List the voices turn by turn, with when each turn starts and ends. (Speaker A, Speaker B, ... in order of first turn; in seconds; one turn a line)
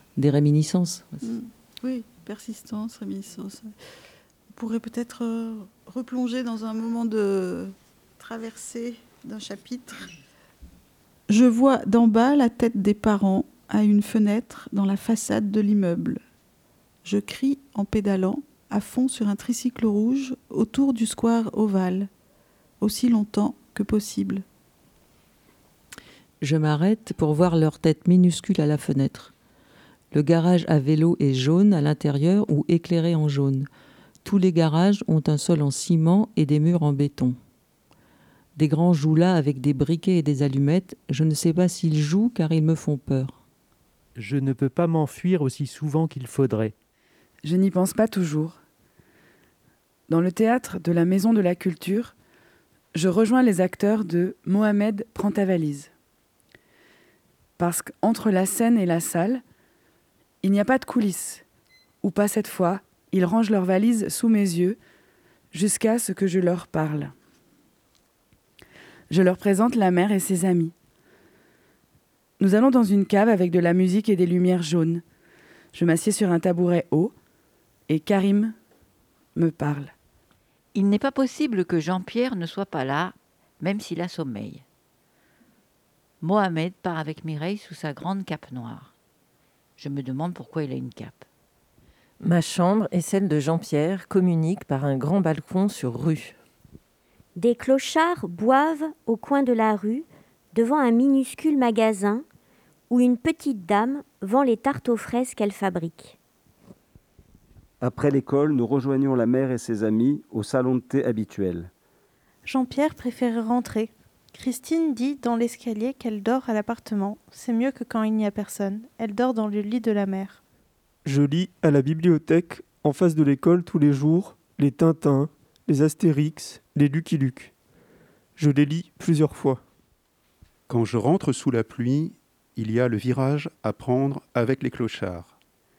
Speaker A: 0.2-1.2
Speaker B: 1.2-3.7
Speaker B: 4.6-10.1
Speaker B: 11.3-16.2
Speaker B: 17.1-22.1
Speaker B: 22.8-24.4
Speaker A: 26.4-29.3
Speaker A: 30.1-33.7
Speaker A: 34.2-37.4
Speaker A: 38.6-43.4
Speaker C: 44.2-46.7
Speaker D: 47.4-48.6
Speaker D: 50.1-52.1
Speaker D: 52.9-55.9
Speaker D: 57.6-59.4
Speaker D: 60.4-61.4
Speaker D: 62.0-64.8
Speaker D: 65.5-67.1
Speaker D: 69.1-70.7
Speaker D: 72.4-75.0
Speaker D: 75.7-77.1
Speaker D: 77.9-78.5
Speaker D: 79.3-79.9
Speaker E: 80.7-84.6
Speaker E: 86.2-88.9
Speaker E: 89.8-91.2
Speaker F: 92.2-96.4
Speaker G: 97.4-102.2
Speaker G: 102.9-106.2
Speaker H: 107.8-111.7
Speaker I: 112.5-120.4
Speaker J: 121.0-127.5
Speaker J: 128.4-129.6
Speaker K: 130.7-135.3